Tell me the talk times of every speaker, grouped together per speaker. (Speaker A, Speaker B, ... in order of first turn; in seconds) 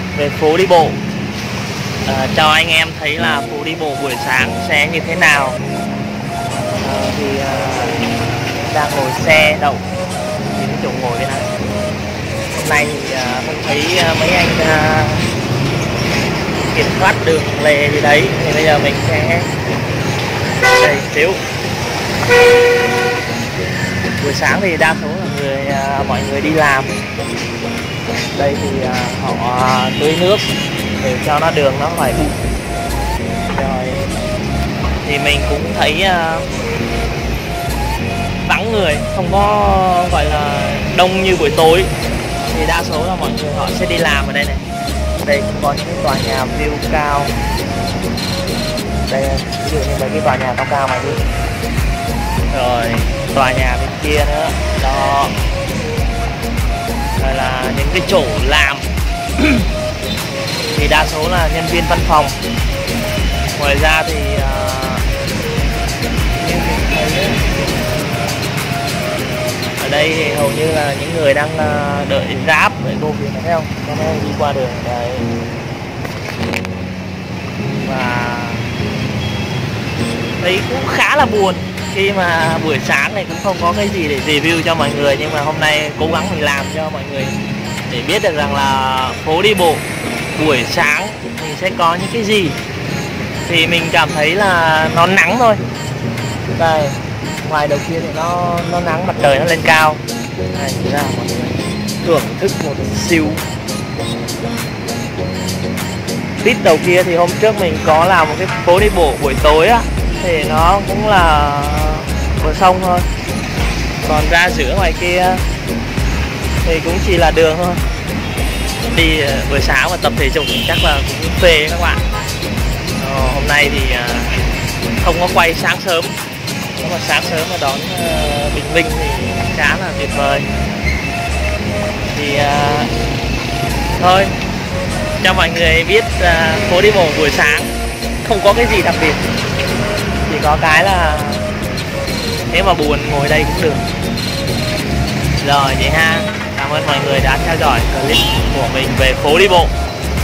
Speaker A: 0.1-1.0, 2.0-5.6, 6.8-8.0, 8.5-9.8, 10.5-11.5, 12.6-15.2, 16.7-19.5, 20.8-21.4, 24.2-27.0, 28.3-30.4, 31.0-32.3, 33.5-34.1, 35.0-36.5, 38.5-41.9, 42.4-44.6, 45.2-47.3, 49.1-51.2, 52.5-55.4, 57.2-59.6, 60.7-62.3, 63.5-65.0, 66.4-67.5, 69.8-75.3, 77.6-78.7, 80.4-87.3, 87.9-92.5, 93.5-95.6, 96.5-103.4, 106.4-113.0, 114.0-115.4, 116.6-117.8, 118.9-122.0, 123.0-124.3, 125.0-126.1, 126.8-130.4, 132.1-132.9, 134.0-134.3, 135.2-139.2, 140.2-141.4, 142.5-143.9, 145.4-149.7